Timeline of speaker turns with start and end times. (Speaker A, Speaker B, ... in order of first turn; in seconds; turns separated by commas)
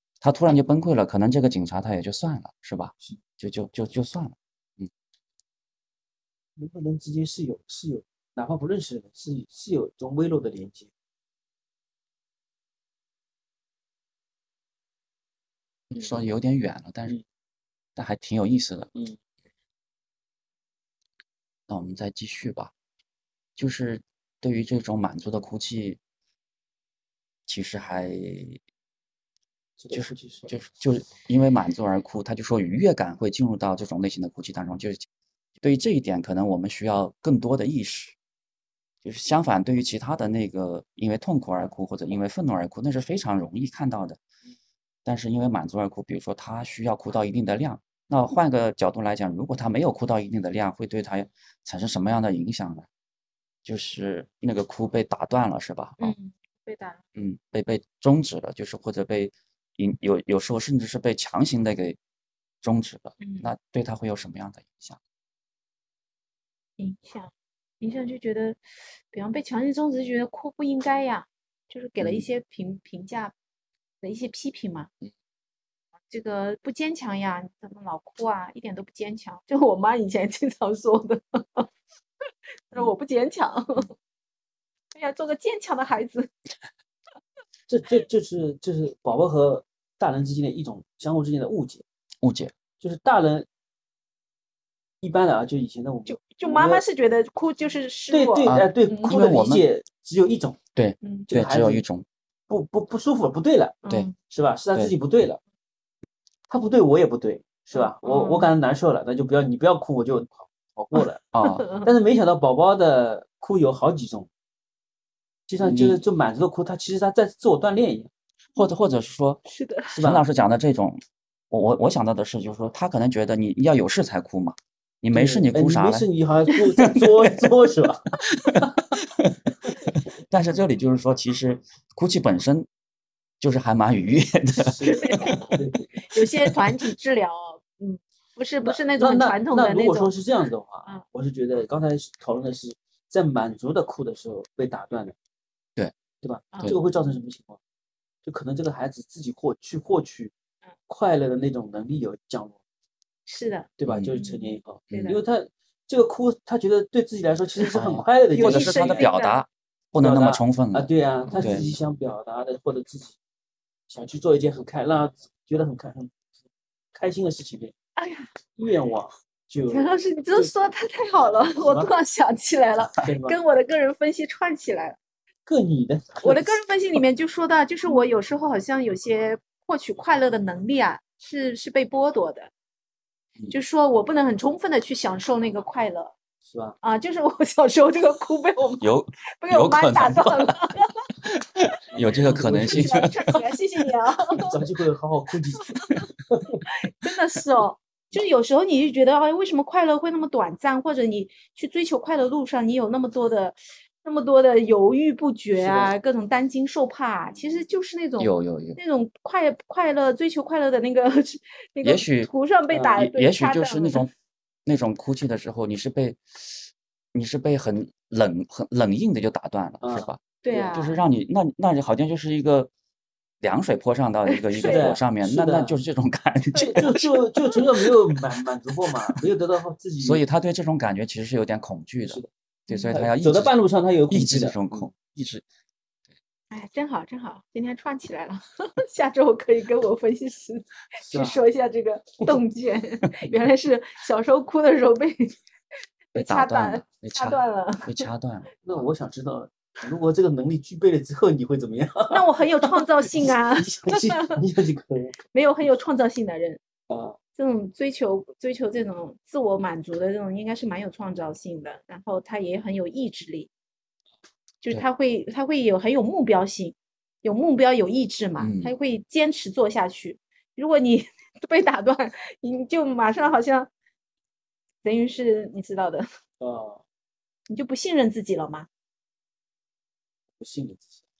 Speaker A: 0.2-4.9, Speaker B: 6.6-10.9, Speaker A: 15.9-17.2, Speaker A: 17.9-18.9, Speaker A: 21.7-22.7, Speaker A: 23.6-26.0, Speaker A: 27.5-28.6, Speaker B: 29.8-30.5, Speaker A: 29.9-35.0, Speaker A: 35.6-38.1, Speaker A: 39.0-44.2, Speaker A: 45.0-52.9, Speaker A: 53.6-56.1, Speaker C: 56.0-57.0, Speaker A: 57.1-62.0, Speaker A: 62.6-65.0, Speaker C: 63.2-63.5, Speaker C: 66.8-68.6, Speaker C: 69.1-73.3, Speaker A: 72.0-72.2, Speaker C: 74.0-74.9, Speaker C: 76.1-81.7, Speaker C: 82.7-83.9, Speaker C: 84.9-86.3, Speaker B: 87.7-91.8, Speaker A: 92.2-92.5, Speaker B: 92.8-93.5, Speaker B: 95.0-96.8, Speaker C: 96.0-99.2, Speaker B: 98.1-100.6, Speaker A: 98.5-99.6, Speaker A: 100.7-102.0, Speaker C: 101.0-101.3, Speaker B: 101.3-101.8, Speaker B: 102.5-105.4, Speaker C: 103.8-104.2, Speaker B: 106.5-111.2, Speaker C: 107.7-108.5, Speaker A: 111.3-111.6, Speaker C: 111.5-111.9, Speaker B: 111.8-114.3, Speaker B: 115.5-118.1, Speaker A: 115.6-116.0, Speaker A: 118.5-119.4, Speaker C: 119.4-120.0, Speaker B: 120.0-120.2, Speaker A: 120.0-127.5, Speaker B: 125.1-128.1, Speaker A: 128.2-132.7, Speaker A: 133.4-135.6, Speaker B: 134.6-136.0, Speaker C: 134.9-135.6, Speaker C: 136.1-140.1, Speaker B: 138.6-145.2, Speaker B: 146.2-147.6, Speaker B: 148.2-150.3, Speaker B: 150.9-152.6, Speaker C: 153.3-155.2, Speaker B: 153.8-159.1, Speaker A: 153.8-154.1, Speaker A: 154.9-155.2, Speaker A: 157.7-161.7, Speaker C: 158.3-159.4, Speaker B: 160.0-163.2, Speaker C: 161.3-161.8, Speaker B: 163.9-166.1, Speaker B: 166.9-167.7, Speaker C: 168.0-168.3, Speaker B: 168.6-170.5, Speaker C: 169.7-175.0, Speaker B: 171.5-171.9, Speaker B: 173.0-173.4, Speaker B: 175.4-177.0, Speaker C: 176.2-182.5, Speaker C: 183.5-186.1, Speaker B: 186.4-186.8, Speaker C: 186.8-188.9, Speaker A: 188.8-190.5, Speaker C: 189.4-190.9, Speaker A: 191.3-193.1, Speaker B: 192.0-193.1, Speaker C: 192.3-194.6, Speaker B: 194.4-195.7, Speaker C: 195.6-196.0, Speaker B: 196.3-196.6, Speaker C: 196.8-214.1, Speaker B: 205.5-205.9, Speaker A: 208.2-208.8, Speaker A: 211.8-212.3, Speaker B: 212.7-213.0, Speaker A: 213.0-214.1, Speaker A: 214.7-222.7, Speaker B: 219.8-220.8, Speaker C: 220.4-221.0, Speaker A: 223.4-228.1, Speaker C: 224.3-224.9, Speaker B: 224.6-225.8, Speaker C: 226.5-226.9, Speaker B: 226.6-230.2, Speaker A: 230.0-233.5, Speaker C: 232.7-232.9, Speaker B: 232.9-234.9, Speaker A: 234.1-235.4, Speaker C: 236.5-245.4, Speaker B: 241.1-241.4, Speaker C: 246.1-248.1, Speaker A: 246.1-248.5, Speaker B: 248.6-255.2, Speaker C: 252.1-254.4, Speaker C: 255.3-256.6, Speaker B: 256.9-257.2, Speaker C: 257.4-263.5, Speaker C: 264.6-273.7, Speaker A: 268.4-268.7, Speaker C: 274.8-276.1, Speaker B: 276.4-276.8, Speaker C: 277.5-278.7, Speaker B: 280.4-281.0